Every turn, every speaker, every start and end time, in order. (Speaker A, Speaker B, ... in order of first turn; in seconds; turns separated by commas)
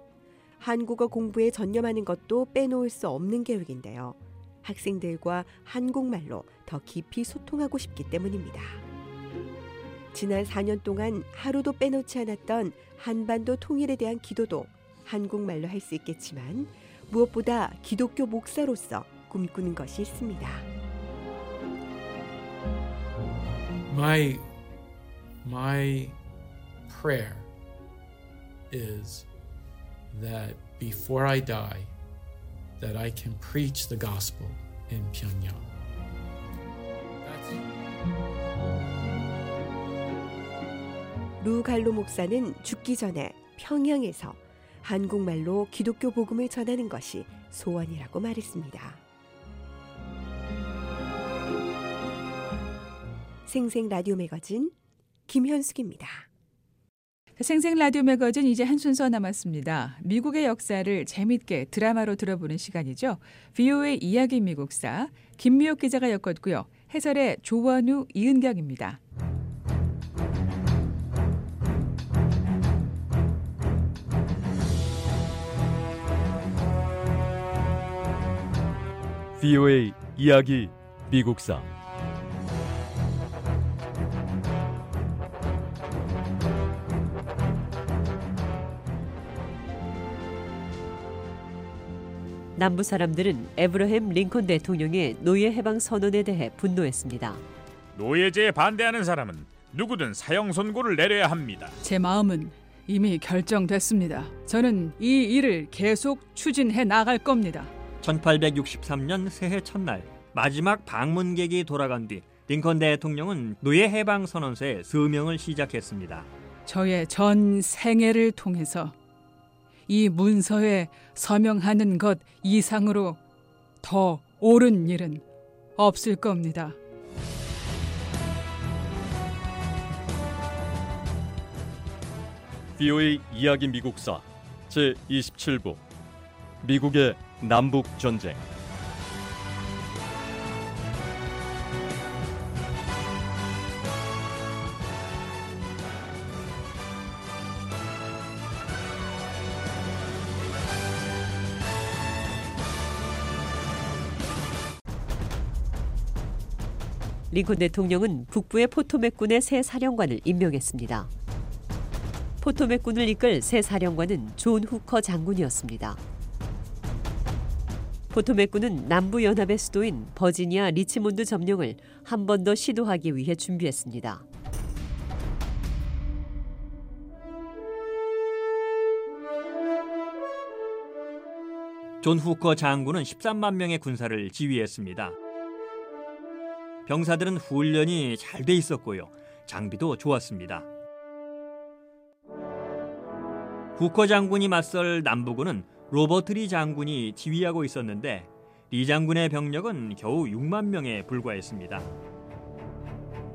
Speaker A: 0.6-8.8, Speaker A: 10.1-20.7, Speaker B: 23.9-24.5, Speaker B: 25.4-26.2, Speaker B: 26.9-27.5, Speaker B: 28.7-29.3, Speaker B: 30.1-31.9, Speaker B: 32.8-35.7, Speaker B: 37.2-37.6, Speaker A: 41.4-49.0, Speaker A: 53.5-54.7, Speaker A: 55.3-56.3, Speaker C: 57.4-69.0, Speaker D: 79.4-81.6, Speaker E: 92.5-97.4, Speaker F: 97.9-101.8, Speaker C: 101.8-107.7, Speaker G: 108.0-116.3, Speaker C: 116.7-118.9, Speaker C: 119.9-123.2, Speaker C: 123.8-125.2, Speaker C: 125.8-126.7, Speaker D: 132.8-134.2, Speaker D: 134.7-135.8, Speaker D: 136.6-138.4, Speaker E: 157.3-161.1, Speaker E: 162.4-166.0, Speaker E: 168.1-174.2, Speaker G: 182.0-185.1, Speaker G: 186.9-190.7, Speaker G: 193.8-201.9